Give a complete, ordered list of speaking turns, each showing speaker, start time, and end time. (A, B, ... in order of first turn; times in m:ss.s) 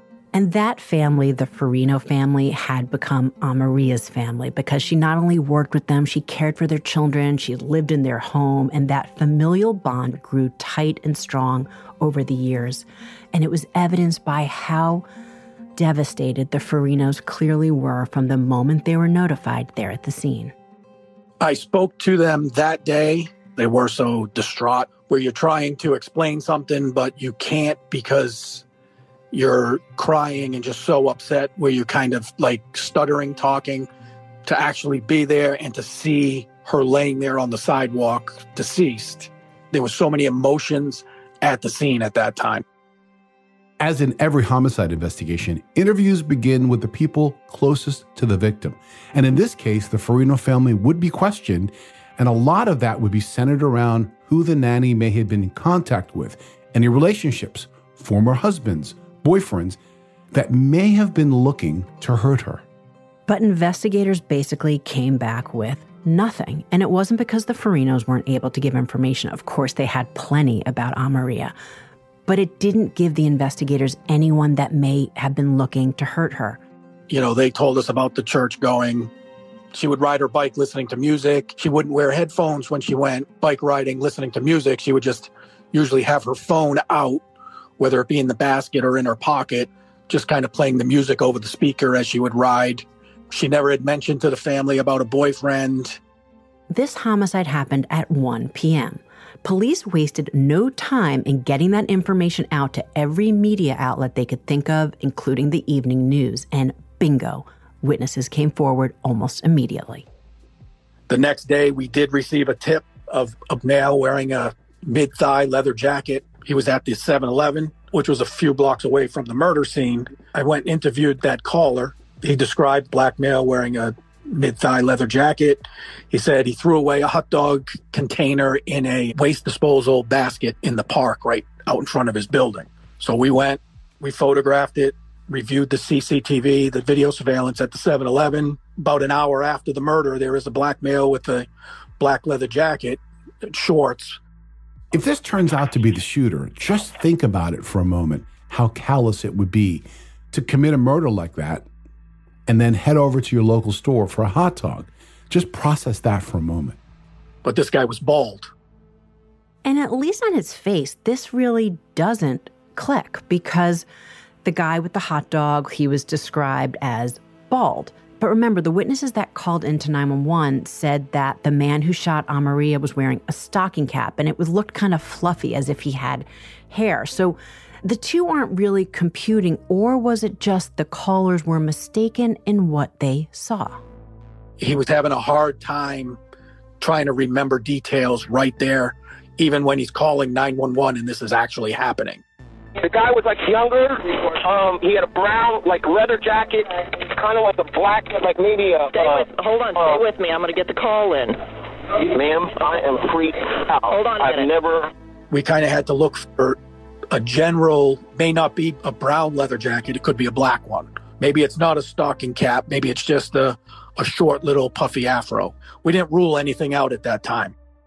0:00.3-0:15.0 A
0:15.8-0:20.5 A
0:21.4-0:28.6 B
0:29.3-0:33.9 B
0:34.4-0:42.6 B
0:43.8-0:59.8 C
1:00.3-1:02.6 C
1:03.3-1:11.5 A
1:12.3-1:16.6 A
1:17.1-1:19.1 B
1:19.7-1:27.2 B
1:27.8-1:36.0 B
1:36.7-1:50.0 A
1:51.1-2:21.5 B
2:22.0-2:24.2 B
2:24.9-2:31.7 C
2:32.5-2:36.8 C
2:37.4-2:38.5 B
2:39.6-2:43.8 A
2:44.4-3:03.8 A
3:04.6-3:06.2 B
3:06.8-3:12.2 B
3:12.8-3:20.0 D
3:18.9-3:21.4 E
3:21.9-3:24.9 D
3:23.9-3:24.5 E
3:25.3-3:26.6 B
3:27.1-3:37.5 B